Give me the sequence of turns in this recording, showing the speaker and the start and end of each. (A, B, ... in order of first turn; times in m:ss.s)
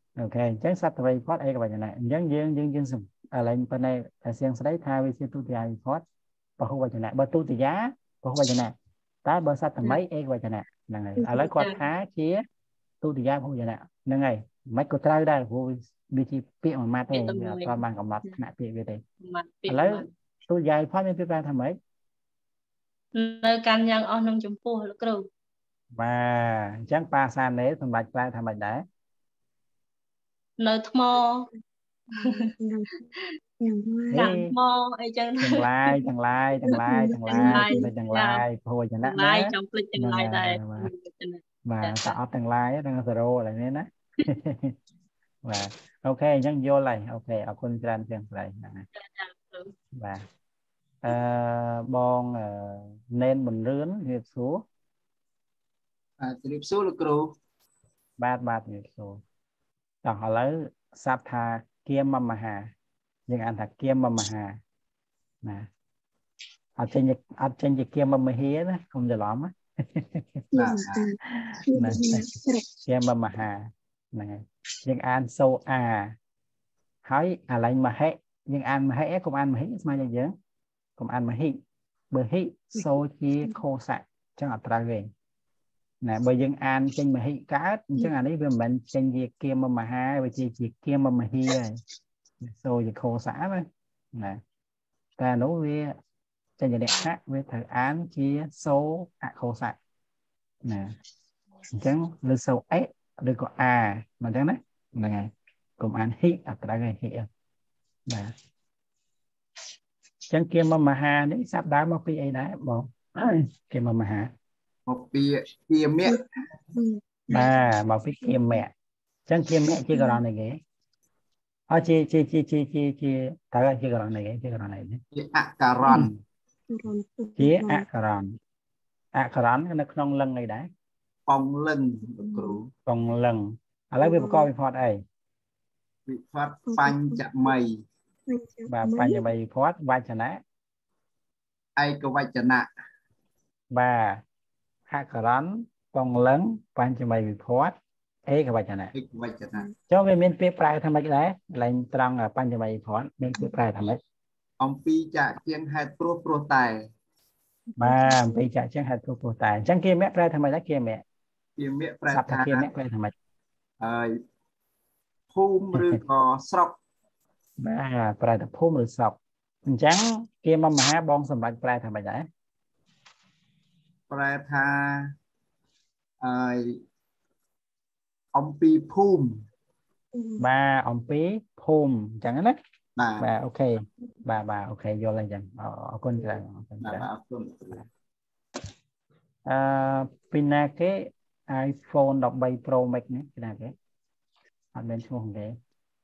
0:00.2-0:06.0 A
0:06.6-0:08.7 A
0:09.2-0:12.4 A
0:11.2-0:11.5 B
0:13.0-0:19.0 A
0:17.1-0:18.4 C
0:19.2-0:20.1 C
0:19.7-0:21.8 A
0:23.1-0:25.2 C
0:26.0-0:28.8 A
0:30.6-0:31.5 C
0:32.2-0:32.9 B
0:32.2-0:32.5 C
0:33.6-0:34.3 B
0:34.1-0:34.5 A
0:34.1-0:35.9 C
0:35.4-0:40.9 A
0:36.7-0:37.9 B
0:37.3-0:38.4 C
0:39.0-0:42.2 C
0:41.6-0:44.7 A
0:45.4-0:48.8 A
0:49.0-0:49.7 C
0:49.9-0:50.2 A
0:51.0-0:54.6 A
0:56.2-0:57.3 D
0:58.2-0:59.2 A
1:00.0-1:02.7 A
1:03.3-1:04.6 A
1:06.8-1:10.4 A
1:10.5-1:11.1 D
1:10.5-1:11.2 B
1:11.3-1:12.3 A
1:11.7-1:12.6 B
1:12.8-1:16.1 A
1:17.0-1:20.3 A
1:21.0-1:21.6 A
1:22.1-1:25.1 A
1:26.0-1:31.8 A
1:32.4-1:34.4 A
1:35.2-1:35.9 A
1:36.6-1:39.8 A
1:40.6-1:40.9 A
1:41.7-1:47.3 A
1:50.3-1:54.3 A
1:54.9-1:56.2 D
1:56.7-1:57.5 B
1:57.3-1:58.7 A
1:58.2-1:58.6 B
1:59.3-2:00.6 A
1:59.9-2:00.2 B
2:01.7-2:05.0 A
2:05.1-2:06.1 D
2:05.8-2:06.1 A
2:06.7-2:07.8 B
2:07.4-2:08.3 A
2:09.1-2:10.7 A
2:11.3-2:12.7 D
2:12.3-2:12.6 B
2:12.8-2:15.0 A
2:14.0-2:14.5 B
2:16.1-2:17.8 D
2:16.6-2:17.5 B
2:18.3-2:19.2 B
2:18.7-2:20.4 A
2:21.8-2:22.7 D
2:23.7-2:24.2 A
2:24.9-2:27.7 A
2:28.3-2:28.9 A
2:28.9-2:29.7 D
2:29.9-2:34.0 A
2:34.6-2:36.8 D
2:37.7-2:38.4 B
2:37.8-2:41.0 A
2:41.6-2:42.7 D
2:42.1-2:43.1 A
2:43.8-2:44.1 D
2:45.3-2:46.8 D
2:47.6-2:52.3 A
2:54.1-2:55.1 D
2:56.2-2:56.8 D
2:58.3-2:59.4 D
3:00.1-3:00.4 B
3:00.4-3:02.6 A
3:03.0-3:03.3 D
3:03.2-3:07.1 A
3:06.8-3:07.8 D
3:09.5-3:13.7 A
3:14.7-3:15.5 A